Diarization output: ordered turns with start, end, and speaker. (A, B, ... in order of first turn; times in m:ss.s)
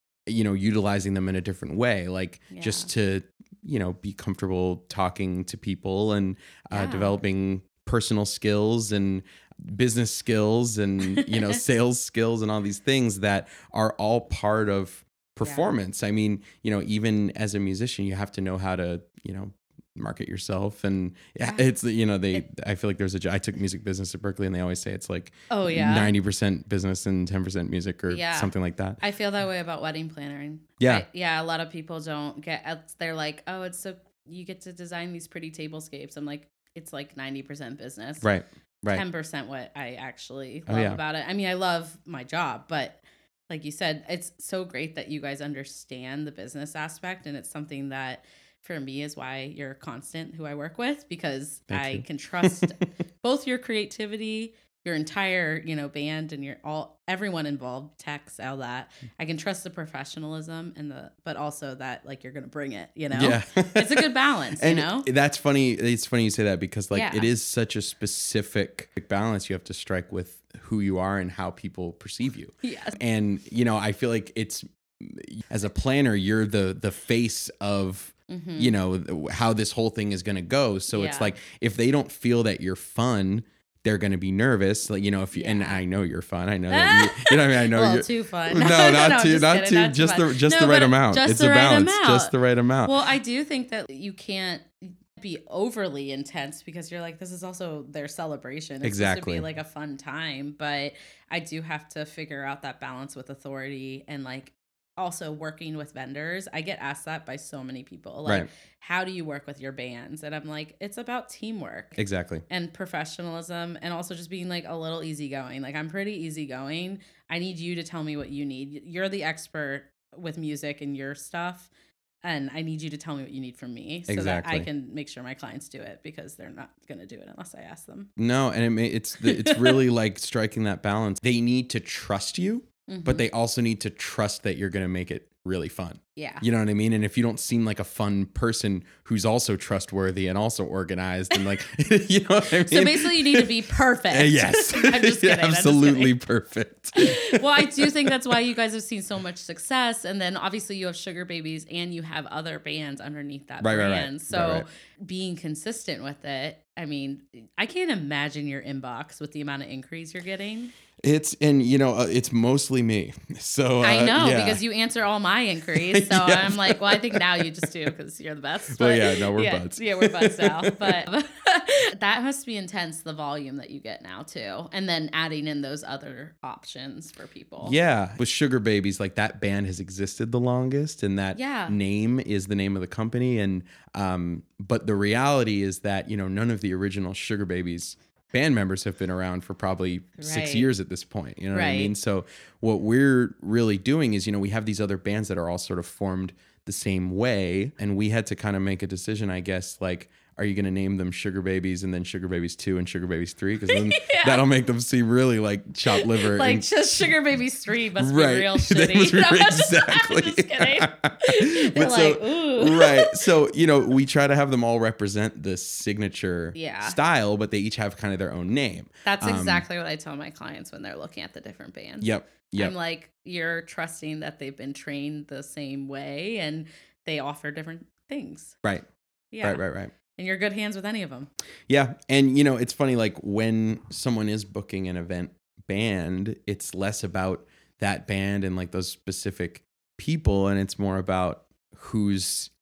0:00.3-0:29.0 A
0:02.5-0:02.9 B
0:06.7-0:07.2 B
0:11.1-0:11.6 B
0:15.4-0:15.7 B
0:25.5-0:26.1 B
0:28.1-0:38.3 B
0:30.8-0:31.0 A
0:38.2-0:39.0 A
0:38.9-1:05.1 B
0:40.7-0:41.0 A
0:51.7-0:52.8 A
1:03.1-1:33.0 A
1:06.9-1:07.3 B
1:12.6-1:13.0 B
1:18.3-1:18.8 B
1:20.9-1:21.3 B
1:25.3-1:25.8 B
1:26.7-1:32.3 B
1:32.8-2:01.7 B
1:38.8-1:39.5 A
1:52.0-1:52.4 A
2:02.2-2:08.1 B
2:04.1-2:04.7 A
2:08.2-2:23.5 A
2:09.2-2:09.8 B
2:12.9-2:13.3 B
2:16.2-2:16.4 B
2:22.6-2:26.2 B
2:24.1-2:28.4 A
2:26.9-2:40.7 B
2:33.6-2:34.7 A
2:41.0-2:44.6 A
2:43.8-2:57.8 B
2:45.7-2:47.7 A
2:48.7-2:51.0 A
2:57.6-3:26.7 A
3:01.3-3:01.8 B
3:10.2-3:10.7 B
3:11.5-3:11.9 B
3:23.7-3:24.4 B
3:25.9-3:33.2 B
3:28.0-3:39.7 A
3:36.6-3:37.0 B
3:39.0-3:48.6 B
3:42.0-3:42.7 A
3:49.3-3:51.3 B
3:49.4-3:49.9 A
3:51.7-4:02.5 A